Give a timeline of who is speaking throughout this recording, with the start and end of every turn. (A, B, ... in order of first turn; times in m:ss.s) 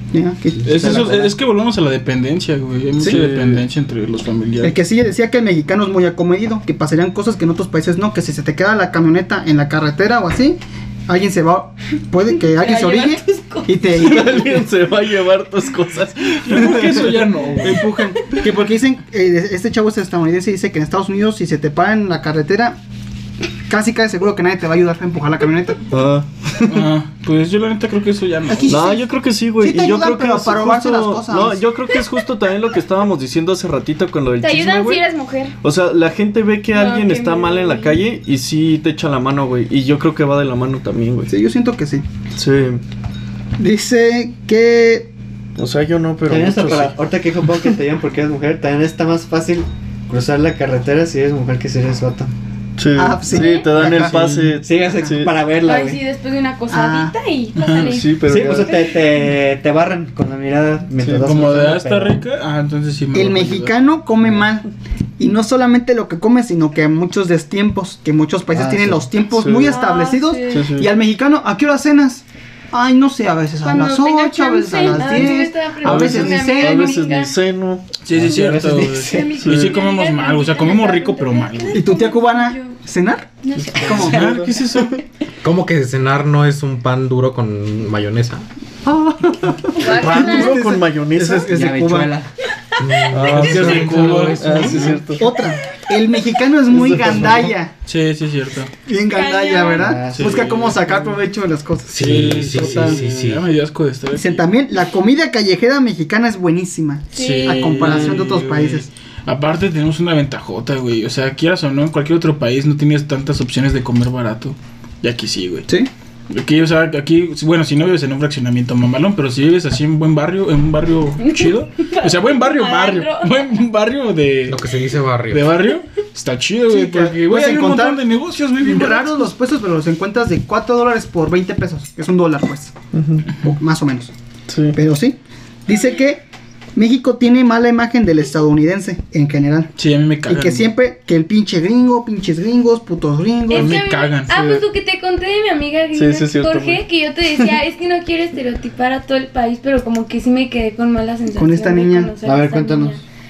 0:00.1-0:01.1 A
0:00.6-0:01.3 B
0:00.6-0:04.7 C
0:03.0-0:03.6 D
0:04.6-0:14.4 A
0:12.5-0:13.9 E
0:13.9-0:17.1 D
0:16.4-0:17.8 C
0:17.6-0:22.8 A
0:23.7-0:25.9 A
0:25.9-0:26.9 D
0:26.6-0:28.8 C
0:28.5-0:29.0 A
0:28.7-0:35.1 D
0:29.6-0:31.6 A
0:34.4-0:35.5 F
0:35.6-0:41.3 D
0:36.7-0:38.0 F
0:41.3-0:42.0 A
0:42.4-0:42.8 D
0:43.6-0:45.1 A
0:45.6-0:47.0 D
0:46.3-0:52.3 B
0:52.8-0:55.3 D
0:52.9-0:54.2 A
0:53.3-0:53.6 E
0:53.9-0:54.5 C
0:54.6-0:56.0 B
0:55.6-0:58.2 E
0:56.7-0:57.2 A
0:57.6-0:58.0 C
0:57.7-0:58.9 D
0:58.2-1:02.2 B
1:01.0-1:01.3 D
1:01.2-1:03.7 C
1:03.1-1:16.9 A
1:08.5-1:09.1 B
1:09.3-1:09.8 D
1:09.6-1:10.7 E
1:10.5-1:10.9 D
1:13.6-1:17.4 E
1:13.7-1:15.2 F
1:15.8-1:17.9 D
1:18.0-1:21.8 C
1:18.1-1:19.3 B
1:18.9-1:22.8 E
1:19.4-1:19.8 D
1:21.7-1:24.3 A
1:23.4-1:24.1 E
1:23.6-1:24.8 D
1:23.8-1:25.0 C
1:25.4-1:28.4 G
1:28.8-1:32.2 A
1:29.8-1:30.6 E
1:29.8-1:30.4 F
1:29.9-1:31.5 D
1:31.5-1:32.3 B
1:32.8-1:35.1 G
1:33.1-1:35.3 D
1:33.3-1:35.0 C
1:35.2-1:37.7 A
1:36.7-1:37.4 B
1:37.2-1:37.5 D
1:37.8-1:38.7 C
1:38.8-1:43.0 A
1:39.2-1:39.9 E
1:39.2-1:40.0 F
1:39.8-1:40.4 B
1:40.1-1:40.8 C
1:41.9-1:43.4 G
1:42.0-1:44.4 C
1:44.1-1:48.9 A
1:47.1-1:55.7 C
1:47.1-1:47.7 F
1:47.8-1:48.2 B
1:56.3-2:04.6 C
2:01.2-2:03.5 E
2:04.5-2:05.5 G
2:05.3-2:09.2 C
2:06.7-2:08.0 A
2:08.6-2:12.7 A
2:12.9-2:13.3 D
2:13.4-2:14.1 A
2:14.5-2:14.8 D
2:14.7-2:16.2 A
2:16.8-2:19.7 A
2:19.8-2:20.7 C
2:20.3-2:23.8 A
2:23.5-2:33.0 E
2:23.5-2:24.6 C
2:25.9-2:26.8 D
2:31.3-2:32.1 A
2:32.2-2:33.0 B